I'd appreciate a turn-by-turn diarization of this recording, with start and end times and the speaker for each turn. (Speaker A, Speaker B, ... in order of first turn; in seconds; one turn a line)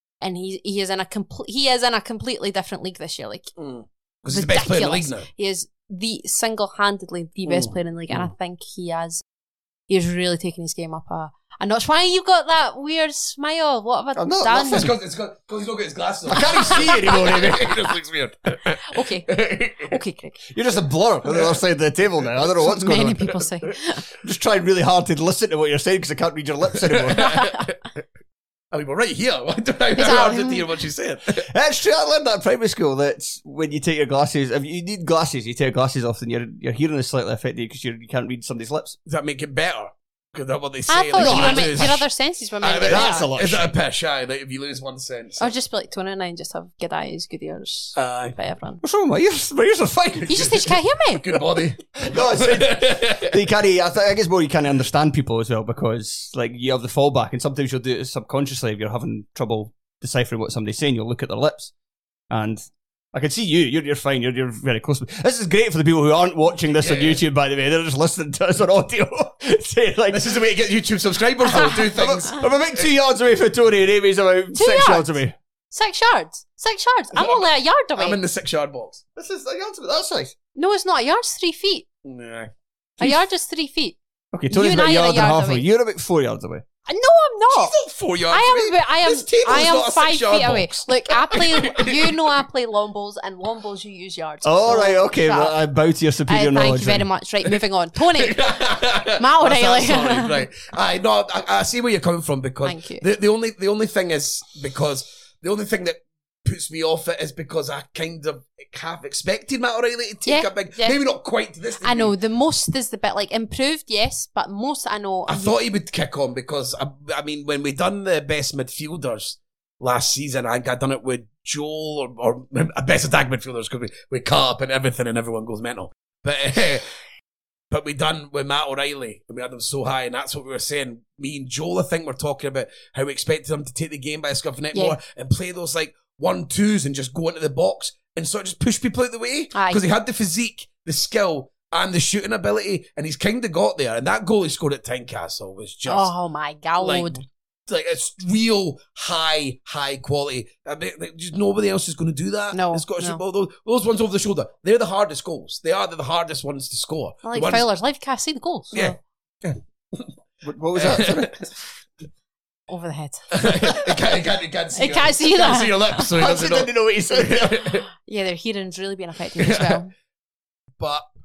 Speaker A: 0.2-3.5
Speaker B: 3.6-5.3
Speaker A: 4.3-9.2
Speaker B: 7.5-8.3
Speaker A: 9.9-14.9
Speaker C: 14.2-14.9
Speaker B: 14.6-20.0
Speaker C: 16.3-17.7
Speaker A: 16.5-17.4
Speaker A: 18.8-20.4
Speaker C: 20.5-23.3
Speaker B: 21.3-21.6
Speaker A: 22.6-24.0
Speaker C: 24.2-27.3
Speaker B: 26.8-27.8
Speaker A: 27.2-27.6
Speaker B: 28.7-31.5
Speaker A: 29.9-30.6
Speaker C: 31.4-39.0
Speaker B: 39.0-42.0
Speaker A: 40.9-43.3
Speaker C: 41.1-41.9
Speaker B: 42.6-45.5
Speaker C: 42.9-43.7
Speaker A: 45.4-48.8
Speaker B: 47.9-48.4
Speaker C: 48.8-50.4
Speaker B: 50.2-53.4
Speaker A: 50.3-51.2
Speaker C: 52.0-61.7
Speaker C: 62.3-70.3
Speaker B: 66.8-67.2
Speaker B: 70.1-72.9
Speaker C: 71.5-75.3
Speaker A: 74.5-75.1
Speaker A: 75.7-78.2
Speaker B: 77.1-79.0
Speaker C: 79.2-80.3
Speaker A: 80.5-81.9
Speaker B: 82.0-82.5
Speaker A: 83.0-84.0
Speaker C: 84.3-86.6
Speaker A: 84.5-85.6
Speaker A: 86.9-87.7
Speaker B: 87.5-92.3
Speaker A: 88.3-95.6
Speaker C: 94.4-97.1
Speaker A: 96.3-98.4
Speaker B: 98.1-112.1
Speaker A: 99.2-100.4
Speaker A: 102.6-103.0
Speaker A: 110.2-111.0
Speaker A: 111.8-115.5
Speaker B: 115.3-126.8
Speaker B: 127.7-146.1
Speaker A: 139.5-139.8
Speaker A: 145.9-147.2
Speaker B: 146.8-157.7
Speaker A: 152.5-153.2
Speaker A: 157.2-159.0
Speaker B: 158.7-160.1
Speaker C: 160.4-161.4
Speaker B: 160.8-161.5
Speaker A: 162.7-163.9
Speaker B: 163.3-167.9
Speaker A: 164.8-166.1
Speaker C: 166.1-167.6
Speaker A: 167.9-169.9
Speaker B: 169.4-169.8
Speaker B: 170.8-171.0